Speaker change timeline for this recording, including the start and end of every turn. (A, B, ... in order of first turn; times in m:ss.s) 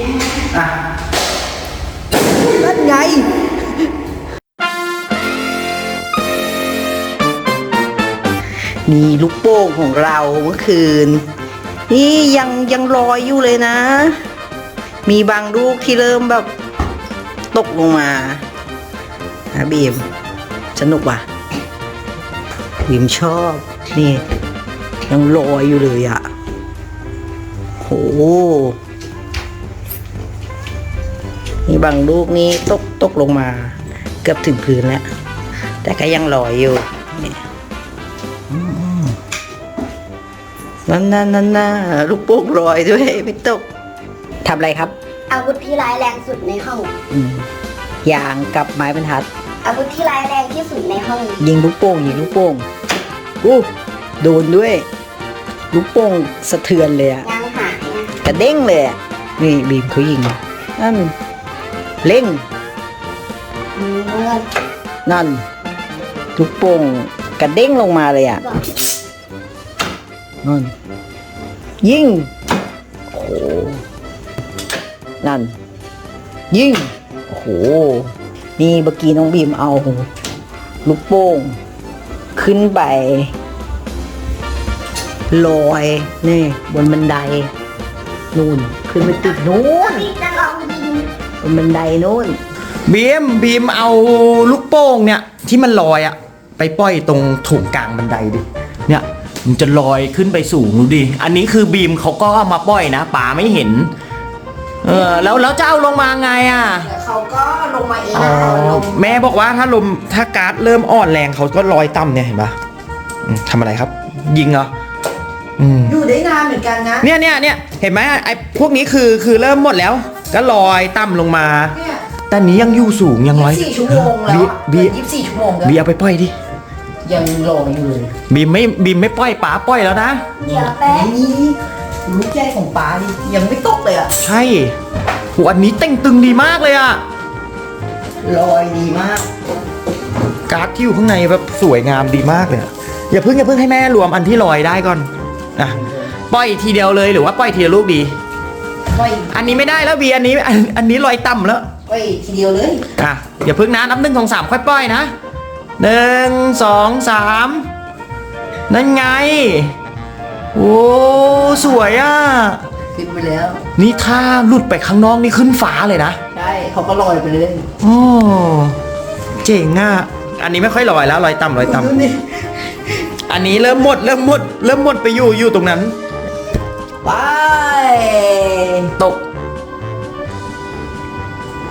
0:02.4-0:03.3 A
0:08.9-0:11.2 A
0:11.9-0:14.2 A
0:15.0-0:16.5 A
0:17.5-0:18.4 A
0:19.5-0:20.1 A
0:20.8-0:21.2 A
0:22.8-0:24.2 A
0:25.1-0:26.2 A
0:27.8-0:28.8 A
0:31.7-0:35.0 A
0:35.8-0:37.4 A
0:38.5-0:39.2 A
0:40.9-0:43.6 A
0:44.4-0:44.9 A
0:45.3-0:46.9 B
0:47.1-0:47.5 A
0:48.0-0:49.3 A
0:49.6-0:51.4 B
0:51.4-0:52.6 A
0:53.4-0:53.7 A
0:54.2-0:54.8 A
0:55.7-0:57.3 A
0:57.2-0:58.1 B
0:58.2-1:01.1 A
1:02.0-1:02.4 A
1:03.8-1:04.5 B
1:05.1-1:05.4 A
1:06.4-1:08.4 A
1:10.4-1:10.7 A
1:11.8-1:12.3 A
1:13.1-1:13.8 A
1:15.2-1:15.6 A
1:16.5-1:20.1 A
1:20.8-1:21.6 A
1:22.3-1:23.3 A
1:25.3-1:27.5 A
1:28.3-1:30.1 A
1:29.3-1:31.1 B
1:31.4-1:32.4 A
1:32.9-1:43.9 C
1:44.8-1:46.9 C
1:44.9-1:45.4 A
1:46.9-1:49.1 A
1:48.1-1:52.6 C
1:53.3-1:54.7 C
1:55.6-1:56.0 C
1:55.9-1:57.1 A
1:57.0-2:01.8 C
2:01.8-2:02.0 A
2:02.3-2:04.9 C
2:03.3-2:05.8 A
2:05.6-2:06.3 C
2:07.0-2:08.1 A
2:08.3-2:10.2 C
2:10.4-2:11.1 B
2:10.5-2:14.1 A
2:14.2-2:14.7 C
2:15.4-2:17.0 C
2:18.2-2:19.3 A
2:20.5-2:25.8 C
2:25.8-2:26.1 A
2:26.3-2:28.1 C
2:28.9-2:29.6 A
2:29.3-2:31.7 C
2:31.8-2:32.8 A
2:33.0-2:35.1 C
2:35.8-2:37.7 C
2:38.7-2:39.7 C
2:40.5-2:42.6 C
2:41.4-2:41.9 A
2:42.9-2:43.6 A
2:43.8-2:46.2 C
2:46.3-2:47.6 A
2:47.8-2:48.8 C
2:49.4-2:51.9 C
2:51.6-2:52.3 A
2:53.3-2:55.9 C
2:57.0-2:59.0 A